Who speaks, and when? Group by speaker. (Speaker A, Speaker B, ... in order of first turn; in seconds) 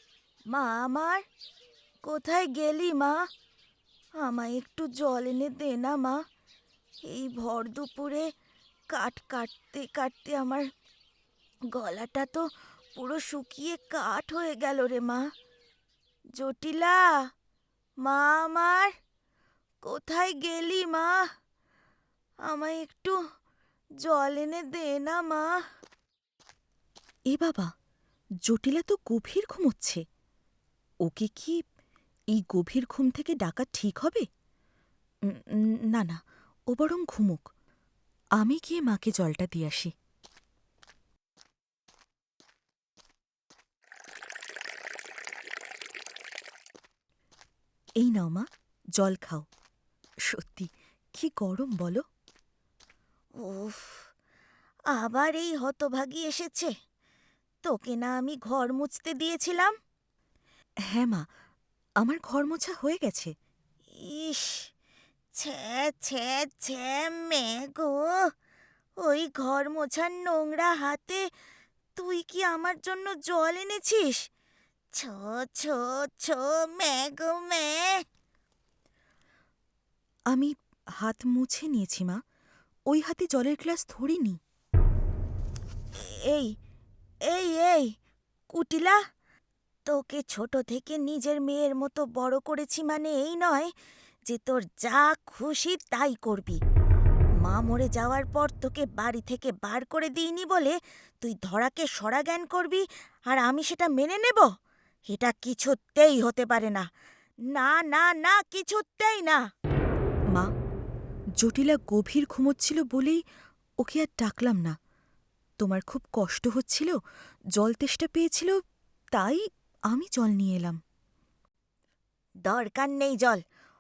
Speaker A: 0.5-1.2, 2.0-3.2, 4.2-6.2, 7.1-8.3, 8.9-10.7, 11.7-15.2, 16.4-17.0, 18.1-18.9, 19.8-21.2, 22.5-23.2, 24.0-25.5, 39.4-39.9, 49.1-49.4, 53.4-54.1, 54.9-56.7, 57.6-59.7, 64.0-64.7, 65.4-68.3, 69.0-71.3, 72.0-74.3, 75.0-78.0, 86.0-86.5, 87.3-87.9, 88.5-89.0, 89.9-93.7, 94.3-96.6, 97.4-104.5, 105.1-106.9, 107.5-109.4, 122.5-123.4
Speaker B: 27.3-27.7, 28.5-30.0, 31.1-31.6, 32.4-34.2, 35.3-36.2, 36.7-37.4, 38.4-39.9, 48.0-48.5, 49.0-49.4, 50.3-52.0, 60.9-61.2, 62.0-63.3, 80.3-82.2, 82.9-84.4, 111.4-113.2, 113.8-114.8, 115.6-117.0, 117.6-118.5, 119.2-120.8